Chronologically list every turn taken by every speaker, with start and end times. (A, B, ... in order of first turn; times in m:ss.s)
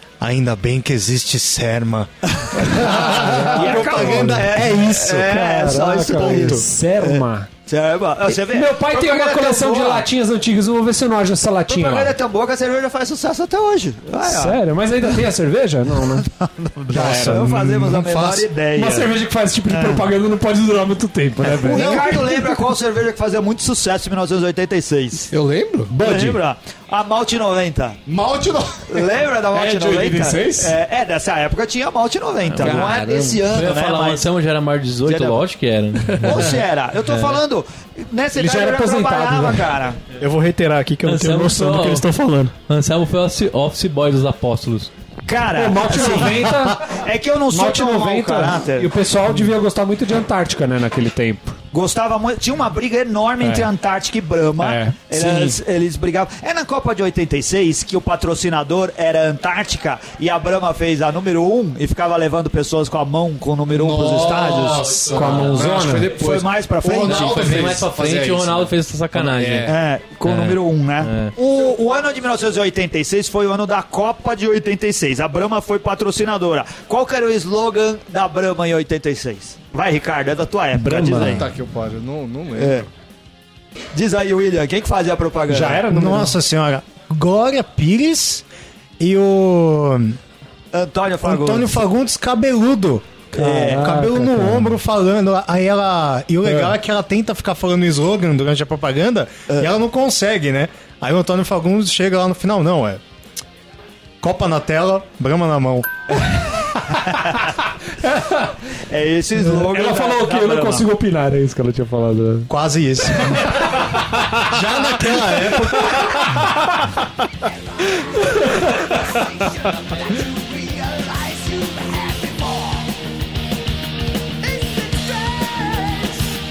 0:00.2-0:05.4 A
0:02.3-0:10.1 B
0:02.7-0:04.5 C
0:05.1-0:07.5 C
0:08.3-0:12.1 C
0:11.7-0:14.6 B
0:14.2-0:16.3 C
0:16.3-0:19.1 B
0:16.9-0:17.5 C
0:16.9-0:18.5 A
0:18.7-0:22.2 C
0:19.7-0:20.1 B
0:21.4-0:25.3 B
0:21.7-0:22.3 A
0:25.3-0:25.9 D
0:25.9-0:26.4 C
0:26.0-0:28.0 B
0:28.1-0:30.7 D
0:28.9-0:34.3 B
0:29.6-0:30.5 C
0:32.5-0:36.6 E
0:32.6-0:33.4 D
0:35.1-0:35.4 B
0:36.2-0:40.0 B
0:38.4-0:39.7 C
0:40.2-0:42.5 F
0:41.0-0:42.1 E
0:42.7-0:44.9 E
0:45.3-0:48.9 B
0:45.6-0:51.6 C
0:51.7-1:05.1 B
0:53.4-0:53.7 C
0:54.6-0:55.6 C
1:03.7-1:09.8 D
1:05.0-1:05.9 E
1:05.1-1:06.1 C
1:06.1-1:07.8 B
1:07.0-1:09.7 E
1:09.7-1:21.5 B
1:10.2-1:11.3 E
1:20.7-1:21.5 C
1:21.1-1:22.9 D
1:22.6-1:22.9 B
1:23.9-1:25.8 B
1:25.5-1:26.4 C
1:25.9-1:28.4 A
1:29.0-1:30.2 A
1:30.7-1:31.8 B
1:31.2-1:43.0 A
1:33.3-1:33.9 B
1:33.4-1:34.8 C
1:36.5-1:36.7 C
1:44.2-1:46.2 A
1:47.0-1:47.4 B
1:48.0-1:48.5 C
1:48.8-1:50.9 B
1:49.4-1:52.5 C
1:52.5-1:53.7 A
1:53.4-1:54.4 C
1:54.4-1:56.4 A
1:55.1-1:56.4 C
2:00.2-2:02.7 B
2:04.6-2:05.9 B